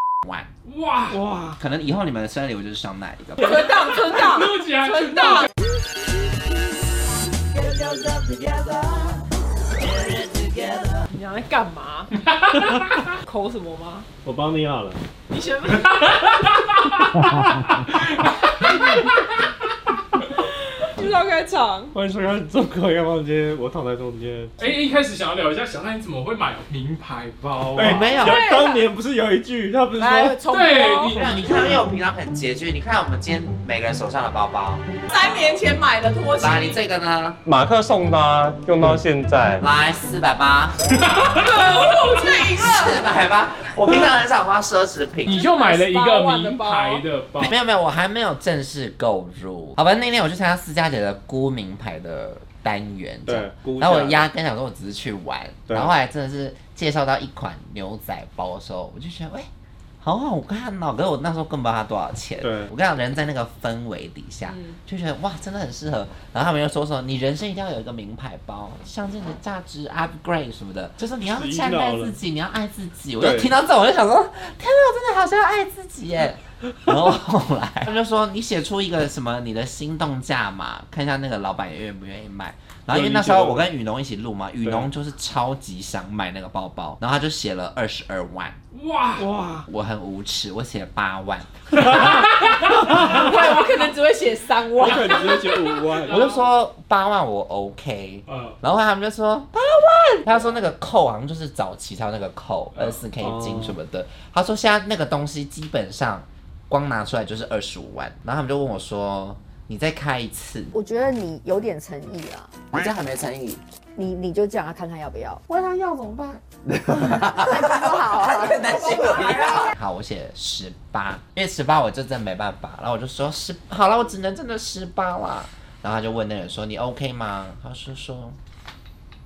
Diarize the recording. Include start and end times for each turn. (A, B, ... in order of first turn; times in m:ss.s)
0:00.2-0:00.5 A
0:00.6-0:01.2 B
0:01.1-0:01.6 C
0:01.6-0:03.6 A
0:03.4-0:05.5 D
0:04.0-0:05.5 B
0:07.5-0:09.1 A
0:09.9-0:10.9 A
0:11.1-0:12.1 D
0:12.3-0:13.0 B
0:13.2-0:14.1 D
0:14.2-0:15.0 C
0:15.3-0:16.3 D
0:15.9-0:19.4 B
0:19.9-0:20.2 B
0:20.3-0:21.9 D
0:21.9-0:24.7 C
0:24.6-0:28.1 B
0:27.7-0:30.4 C
0:27.8-0:28.4 A
0:28.2-0:28.9 D
0:29.9-0:31.2 D
0:30.5-0:31.8 B
0:31.1-0:34.8 A
0:35.1-0:36.8 D
0:36.4-0:37.4 A
0:37.4-0:39.6 C
0:39.6-0:40.9 A
0:41.1-0:43.0 D
0:42.1-0:45.4 A
0:45.2-0:47.5 B
0:45.3-0:47.0 D
0:47.4-0:59.5 A
0:53.3-0:54.3 C
0:55.7-0:55.9 C
1:00.0-1:28.5 A
1:02.4-1:02.7 C
1:04.5-1:04.7 D
1:11.2-1:12.2 C
1:13.2-1:13.5 C
1:22.9-1:23.7 C
1:28.7-1:29.3 B
1:29.2-1:29.7 C
1:29.7-1:31.9 A
1:31.9-1:33.0 B
1:32.9-1:35.4 D
1:34.8-1:36.2 C
1:34.8-1:36.5 B
1:36.1-1:50.7 A
1:38.3-1:38.6 B
1:42.7-1:43.0 B
1:43.2-1:43.8 C
1:50.7-1:52.6 E
1:52.7-1:53.6 A
1:54.0-1:55.4 E
1:55.5-2:08.4 A
1:57.4-1:59.4 E